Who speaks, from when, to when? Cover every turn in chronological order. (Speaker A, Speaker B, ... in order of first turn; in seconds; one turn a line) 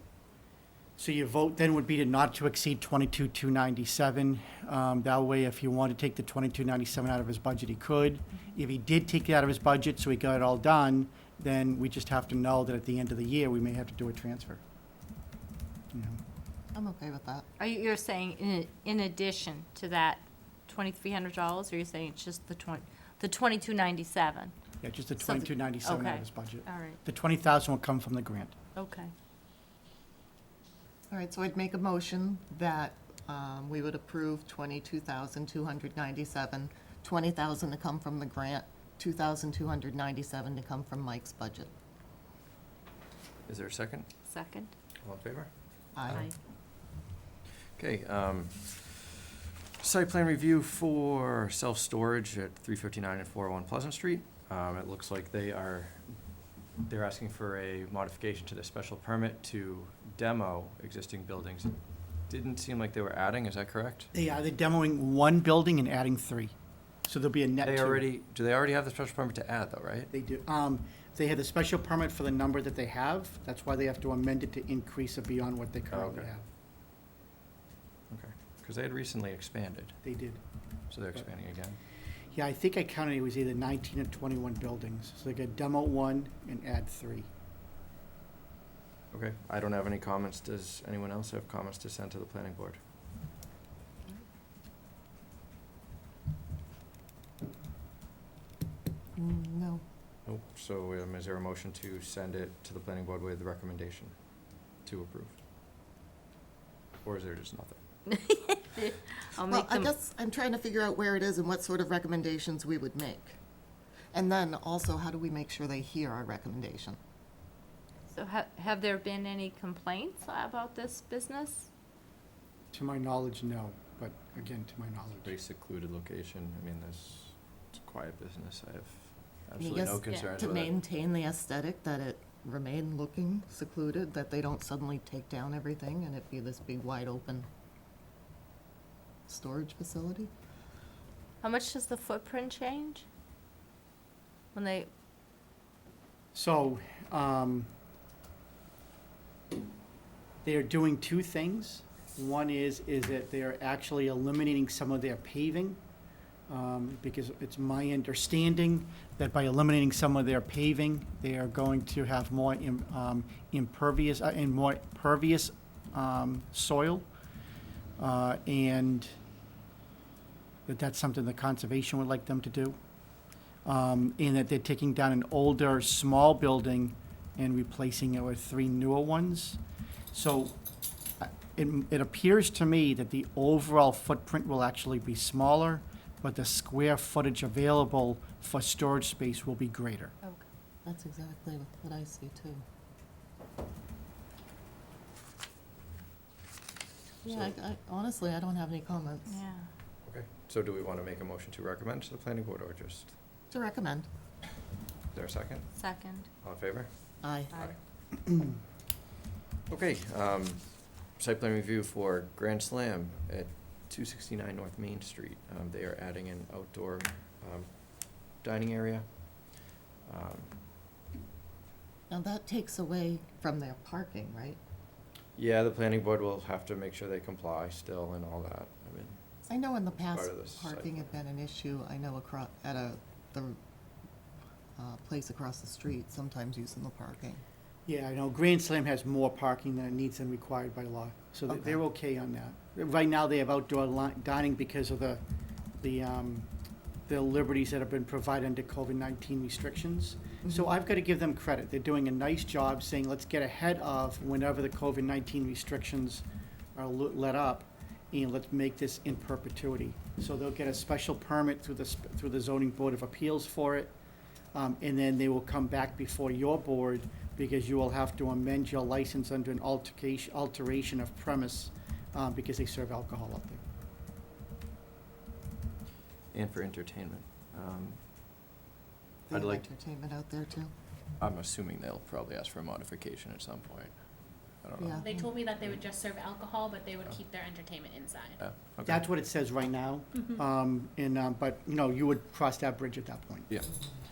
Speaker A: 1.0-14.6
Speaker A: 15.9-16.2
Speaker B: 16.7-17.4
Speaker C: 17.6-24.5
Speaker A: 24.8-28.5
Speaker C: 25.2-27.0
Speaker C: 28.8-29.1
Speaker B: 31.1-41.7
Speaker D: 43.5-44.1
Speaker C: 44.3-44.7
Speaker D: 45.0-45.5
Speaker B: 46.0-46.3
Speaker D: 47.8-49.2
Speaker D: 49.8-56.1
Speaker D: 56.9-61.7
Speaker D: 62.3-64.1
Speaker A: 64.1-66.5
Speaker A: 67.0-68.1
Speaker D: 67.6-70.1
Speaker A: 70.1-76.4
Speaker D: 75.9-76.3
Speaker D: 78.1-80.0
Speaker A: 80.0-80.4
Speaker D: 80.9-81.8
Speaker A: 82.3-87.3
Speaker D: 89.1-92.8
Speaker B: 99.2-99.8
Speaker D: 100.2-104.1
Speaker D: 104.8-105.4
Speaker D: 107.0-107.8
Speaker C: 108.1-109.9
Speaker B: 109.4-113.4
Speaker B: 114.1-117.0
Speaker C: 118.1-121.7
Speaker A: 122.7-125.3
Speaker D: 125.2-130.7
Speaker B: 129.6-137.5
Speaker B: 139.3-140.3
Speaker C: 141.4-143.0
Speaker C: 144.5-144.9
Speaker A: 146.3-147.7
Speaker A: 150.4-155.8
Speaker A: 156.5-167.1
Speaker A: 168.0-169.1
Speaker A: 170.7-172.8
Speaker A: 173.6-179.6
Speaker A: 180.1-180.6
Speaker A: 181.2-190.1
Speaker B: 190.8-192.6
Speaker B: 197.2-199.3
Speaker D: 197.3-197.6
Speaker C: 199.3-199.7
Speaker D: 200.0-203.1
Speaker B: 203.5-204.1
Speaker D: 205.1-205.7
Speaker C: 205.8-206.3
Speaker D: 206.4-207.8
Speaker B: 207.2-207.5
Speaker D: 209.7-217.7
Speaker D: 218.4-219.1
Speaker D: 220.1-220.5
Speaker B: 222.1-224.6
Speaker D: 225.3-229.2
Speaker B: 229.4-233.6
Speaker D: 229.9-231.1
Speaker B: 234.8-237.4
Speaker A: 237.8-245.2
Speaker B: 241.5-241.8
Speaker A: 245.8-246.5
Speaker A: 247.1-263.9
Speaker B: 250.4-250.7
Speaker A: 264.5-273.6
Speaker D: 276.3-278.0
Speaker B: 279.3-280.7
Speaker D: 279.3-279.6
Speaker D: 281.2-283.9
Speaker D: 284.6-285.1
Speaker B: 284.8-285.3
Speaker E: 285.0-288.4
Speaker D: 288.4-289.0
Speaker A: 288.9-293.5
Speaker E: 290.1-290.4